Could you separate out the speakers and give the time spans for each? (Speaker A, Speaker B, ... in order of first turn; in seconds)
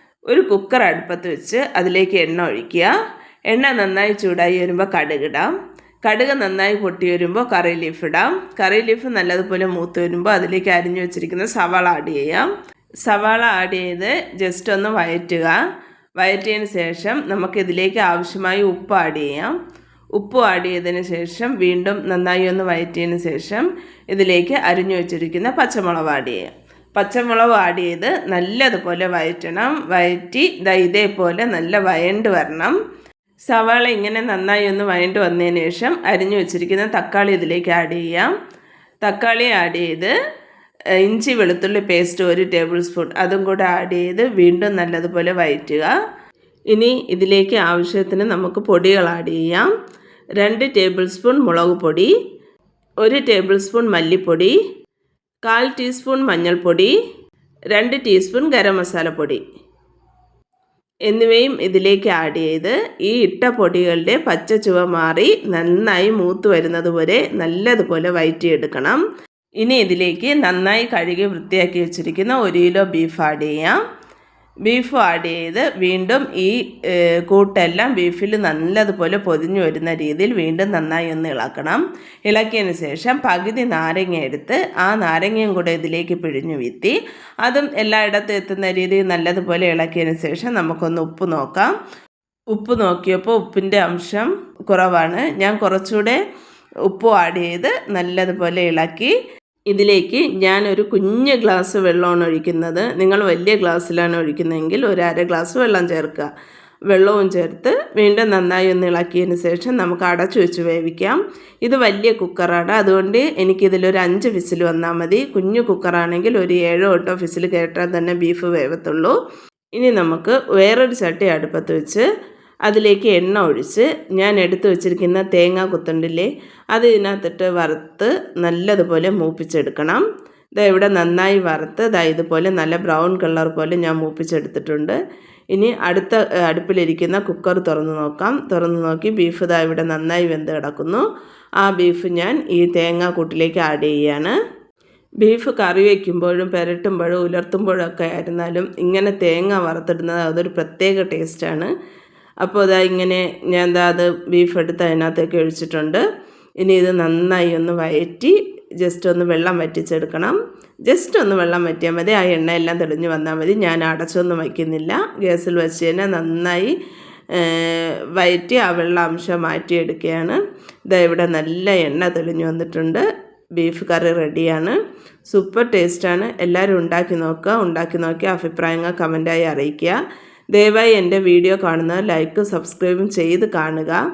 Speaker A: 0.3-2.9, 3.5-5.5, 6.0-12.5, 13.0-15.5, 16.2-19.5, 20.2-32.7, 33.5-38.3, 39.0-40.1, 41.0-45.9, 46.7-49.7, 50.4-52.1, 53.0-54.5, 55.4-57.0, 57.7-59.4, 61.1-69.0, 69.6-73.8, 74.6-91.7, 92.5-96.2, 96.9-99.1, 99.7-106.3, 106.9-119.1, 119.8-122.0, 122.7-130.0, 130.6-134.9, 135.5-141.0, 141.6-144.3, 145.2-151.7, 152.4-156.0, 156.6-160.3, 160.9-166.8, 167.3-173.0, 173.6-174.8, 175.3-180.0, 180.5-184.0